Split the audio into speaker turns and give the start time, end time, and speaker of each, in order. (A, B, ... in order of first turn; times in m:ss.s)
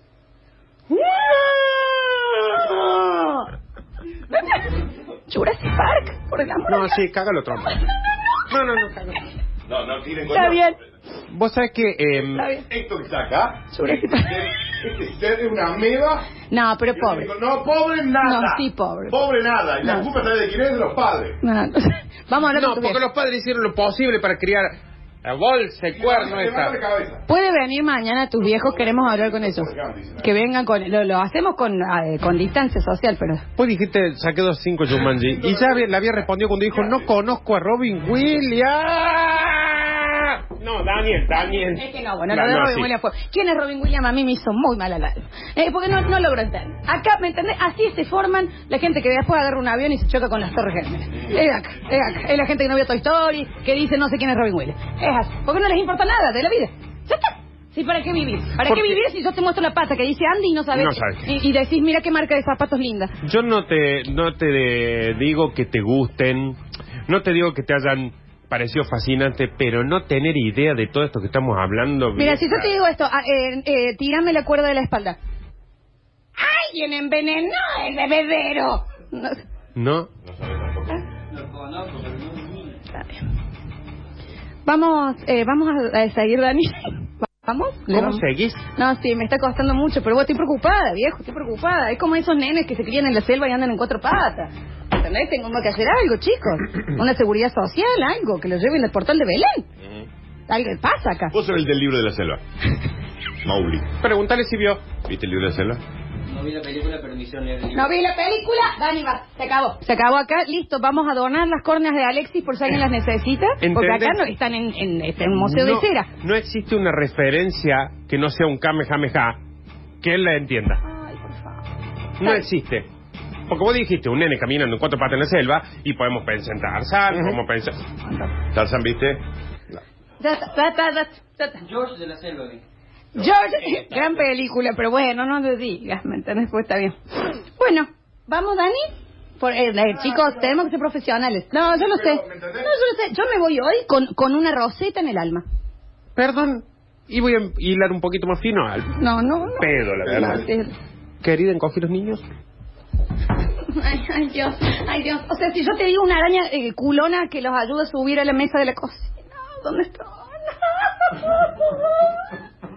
0:01.0-0:01.5 A
0:02.6-0:03.5 B
0:04.3-0:07.0 B
0:06.7-0:07.8 A
0:08.5-0:09.2 A
0:09.7-0:10.7 C
0:10.3-0:10.8 B
0:11.3-0:12.4 A
0:12.4-0:12.6 B
0:12.6-0:16.2 C
0:13.7-0:14.3 B
0:16.5-0:17.3 B
0:16.9-0:21.4 C
0:18.2-0:19.2 B
0:19.8-0:20.1 B
0:21.4-0:23.0 B
0:22.4-0:26.8 A
0:26.0-0:27.2 C
0:27.2-0:33.4 B
0:28.4-0:30.3 C
0:33.6-0:42.9 A
0:35.0-0:35.9 C
0:36.7-0:37.1 C
0:41.4-1:03.1 B
0:58.6-0:59.0 A
1:00.7-1:01.3 A
1:03.2-1:12.7 A
1:12.2-1:15.2 B
1:16.4-1:19.4 B
1:19.7-1:20.1 A
1:20.2-1:21.0 C
1:21.4-1:22.6 D
1:22.9-1:23.2 B
1:24.6-1:28.2 B
1:27.9-1:28.6 A
1:28.7-1:39.6 B
1:40.5-1:41.3 B
1:41.3-1:42.4 C
1:43.4-1:43.9 C
1:44.0-1:44.8 A
1:45.0-1:45.8 C
1:46.3-1:47.9 D
1:47.7-1:56.1 B
1:53.6-1:54.2 A
1:55.3-1:59.4 A
2:00.0-2:00.8 A
2:00.8-2:01.6 B
2:02.2-2:02.9 A
2:03.5-2:07.8 A
2:07.1-2:07.4 C
2:08.0-2:08.3 B
2:08.5-2:09.2 C
2:10.2-2:11.7 B
2:11.6-2:12.6 D
2:13.1-2:25.4 B
2:20.1-2:20.5 C
2:21.6-2:22.7 C
2:26.2-2:28.9 A
2:28.9-2:30.7 B
2:29.5-2:30.4 A
2:31.2-2:32.2 A
2:33.6-2:42.1 B